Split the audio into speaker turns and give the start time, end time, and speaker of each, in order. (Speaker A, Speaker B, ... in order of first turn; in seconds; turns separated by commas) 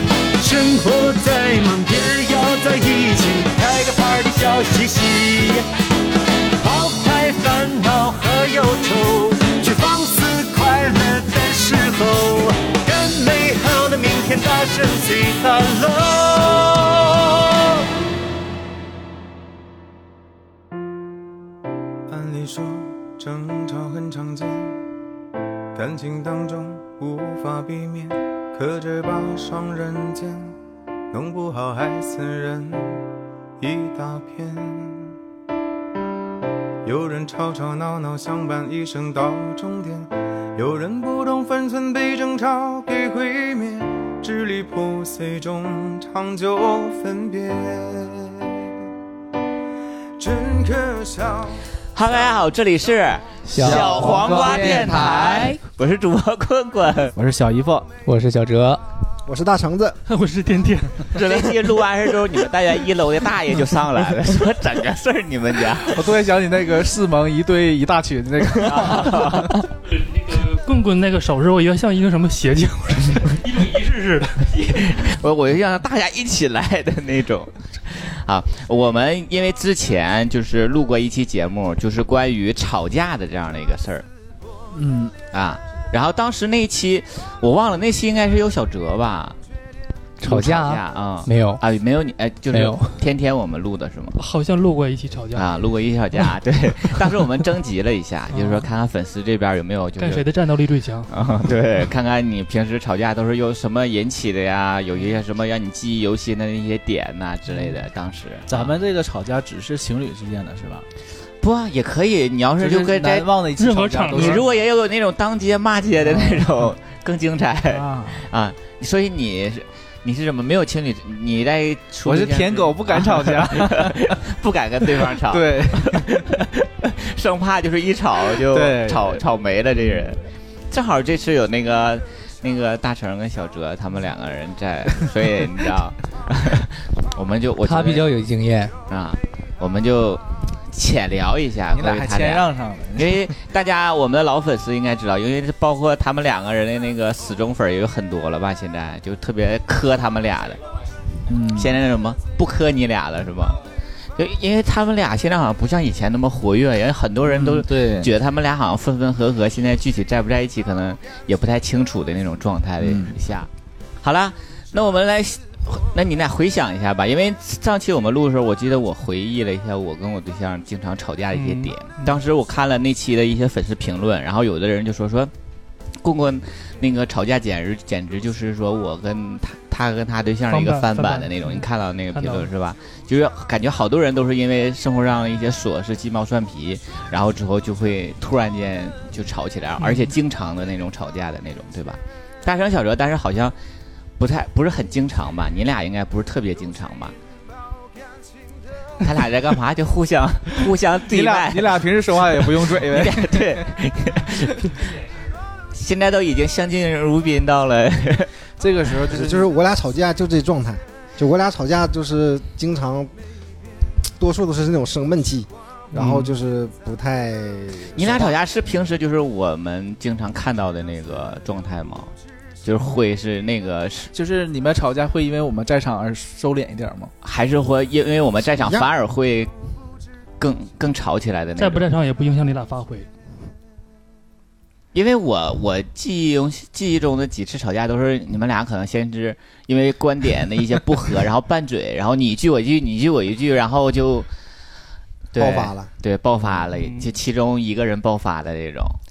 Speaker A: 0.4-5.7, Speaker A: 6.6-17.8, Speaker B: 22.1-24.8, Speaker B: 25.7-30.6, Speaker B: 31.1-33.0, Speaker B: 33.6-35.1, Speaker B: 36.8-48.6, Speaker B: 50.2-51.6, Speaker C: 51.9-57.1, Speaker D: 53.5-55.6, Speaker E: 57.1-57.9, Speaker D: 58.0-58.8, Speaker F: 59.2-60.0, Speaker G: 60.1-61.5, Speaker C: 61.1-66.1, Speaker E: 65.8-69.6, Speaker C: 68.6-69.6, Speaker G: 69.9-74.5, Speaker C: 74.4-84.0, Speaker E: 84.7-85.1, Speaker C: 85.3-89.3, Speaker D: 90.2-91.6, Speaker C: 90.2-94.2, Speaker D: 92.5-93.0, Speaker G: 94.2-95.5, Speaker C: 95.3-100.2, Speaker G: 100.0-101.1, Speaker C: 101.1-108.7, Speaker E: 108.5-110.8, Speaker C: 111.4-113.3, Speaker E: 112.6-114.6, Speaker G: 113.6-114.4, Speaker C: 114.1-130.2, Speaker E: 116.0-116.7, Speaker E: 117.7-118.2, Speaker E: 122.0-124.2, Speaker E: 124.8-126.3, Speaker E: 128.4-129.2, Speaker C: 130.7-138.1, Speaker D: 137.6-138.7, Speaker C: 138.9-150.6, Speaker E: 141.7-143.3, Speaker E: 151.3-151.8, Speaker C: 151.5-153.6, Speaker C: 154.2-163.5, Speaker E: 157.3-158.1, Speaker E: 162.8-163.2, Speaker C: 164.0-175.3, Speaker G: 171.3-172.2, Speaker C: 176.0-193.5, Speaker G: 180.5-182.5, Speaker G: 189.8-190.1, Speaker C: 194.2-197.1, Speaker C: 199.0-204.9, Speaker E: 201.1-203.6, Speaker C: 205.7-208.3, Speaker E: 208.6-209.5, Speaker F: 209.1-213.1, Speaker F: 214.2-218.3, Speaker E: 215.9-216.2, Speaker C: 217.9-222.1, Speaker C: 222.6-224.1, Speaker E: 224.1-227.1, Speaker C: 227.2-229.5, Speaker F: 228.6-228.9, Speaker C: 230.4-231.9, Speaker G: 231.6-233.1, Speaker C: 234.9-244.3, Speaker C: 245.3-249.0, Speaker F: 245.3-245.9, Speaker G: 246.7-247.1